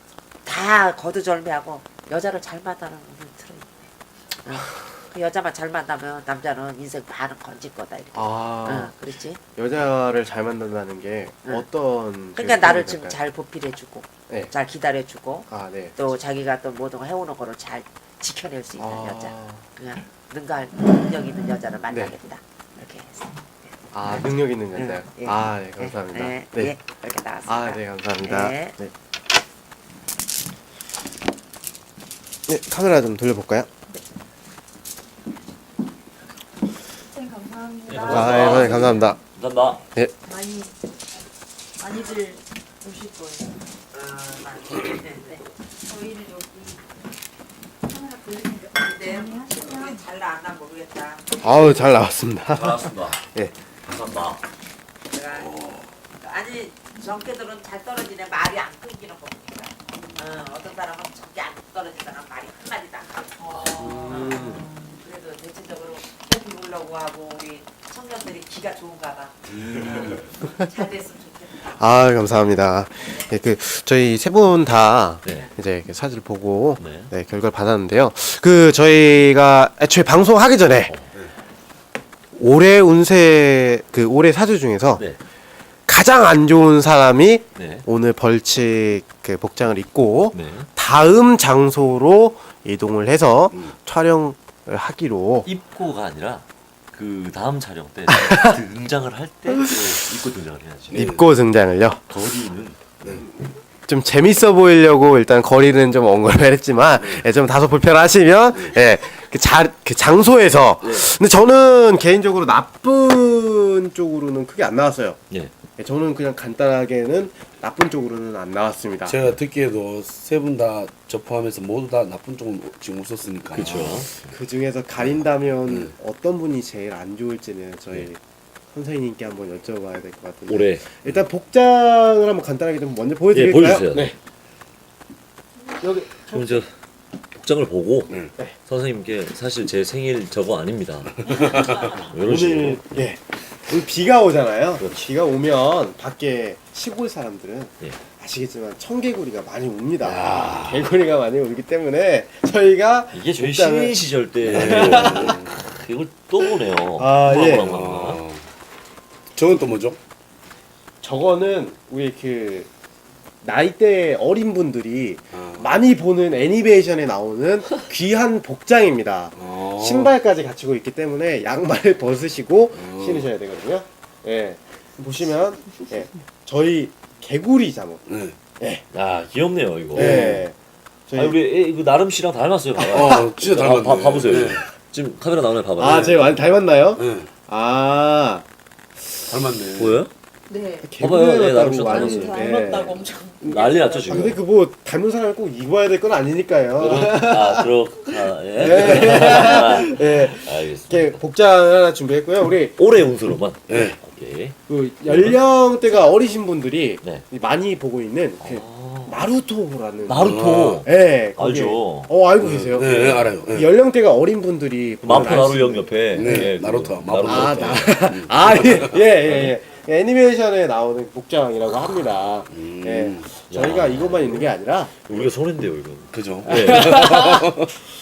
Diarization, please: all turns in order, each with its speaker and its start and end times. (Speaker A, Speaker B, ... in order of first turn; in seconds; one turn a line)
Speaker A: 0.4-3.9
Speaker A: 4.4-9.4
Speaker B: 4.5-4.9
Speaker B: 8.1-8.9
Speaker B: 9.6-13.2
Speaker A: 12.4-28.8
Speaker B: 15.5-16.0
Speaker B: 18.8-19.7
Speaker B: 23.9-26.8
Speaker B: 27.5-28.9
Speaker B: 32.5-33.7
Speaker C: 37.1-38.3
Speaker D: 37.9-39.8
Speaker B: 38.0-39.2
Speaker C: 40.3-40.8
Speaker C: 41.8-43.6
Speaker A: 43.9-45.4
Speaker C: 45.9-46.7
Speaker C: 47.9-49.9
Speaker A: 48.6-51.4
Speaker B: 51.4-53.5
Speaker D: 52.5-53.2
Speaker D: 53.9-54.4
Speaker A: 55.1-55.5
Speaker E: 55.3-55.9
Speaker A: 56.1-71.7
Speaker B: 63.8-64.7
Speaker B: 71.7-80.9
Speaker D: 76.8-77.1
Speaker D: 80.9-81.1
Speaker B: 82.3-85.1
Speaker B: 85.9-95.5
Speaker D: 87.5-87.8
Speaker D: 90.3-90.7
Speaker D: 95.4-101.1
Speaker B: 98.1-98.6
Speaker B: 99.5-99.9
Speaker E: 100.9-101.2
Speaker B: 100.9-102.0
Speaker D: 102.1-103.1
Speaker B: 103.9-115.2
Speaker B: 115.8-119.2
Speaker E: 119.1-124.0
Speaker D: 123.5-124.3
Speaker B: 123.6-128.2
Speaker E: 125.7-125.9
Speaker B: 128.7-134.2
Speaker D: 130.5-131.1
Speaker D: 133.3-134.1
Speaker B: 135.8-136.6
Speaker D: 136.3-136.7
Speaker D: 137.3-142.8
Speaker E: 141.2-142.0
Speaker B: 142.2-155.4
Speaker E: 150.0-150.9
Speaker D: 153.1-158.2
Speaker E: 154.4-155.6
Speaker B: 156.4-157.8
Speaker E: 157.5-158.4
Speaker E: 159.3-160.0
Speaker B: 161.0-162.7
Speaker B: 163.4-178.0
Speaker E: 165.3-165.8
Speaker E: 169.4-170.1
Speaker E: 172.8-173.3
Speaker E: 178.1-178.4
Speaker B: 178.6-178.8
Speaker D: 178.9-180.4
Speaker B: 179.9-180.6
Speaker E: 179.9-180.4
Speaker B: 181.1-181.4
Speaker D: 181.1-186.2
Speaker B: 182.8-183.3
Speaker E: 182.9-184.6
Speaker B: 185.8-188.4
Speaker E: 185.9-186.3
Speaker E: 187.0-187.3
Speaker B: 189.0-189.3
Speaker E: 189.3-190.0
Speaker D: 189.8-190.1
Speaker C: 190.5-190.9
Speaker B: 190.8-202.8
Speaker D: 191.0-192.5
Speaker C: 191.9-193.6
Speaker D: 193.4-194.4
Speaker D: 196.8-201.2
Speaker D: 202.8-205.4
Speaker E: 203.7-204.0
Speaker B: 204.7-216.5
Speaker D: 208.4-209.2
Speaker D: 210.1-212.1
Speaker E: 210.2-210.9
Speaker E: 212.4-213.7
Speaker D: 215.0-218.1
Speaker E: 215.1-215.5
Speaker E: 216.1-219.6
Speaker B: 217.2-225.3
Speaker E: 222.5-223.3
Speaker D: 223.5-224.5
Speaker D: 225.0-227.1
Speaker E: 226.1-227.7
Speaker B: 226.5-227.5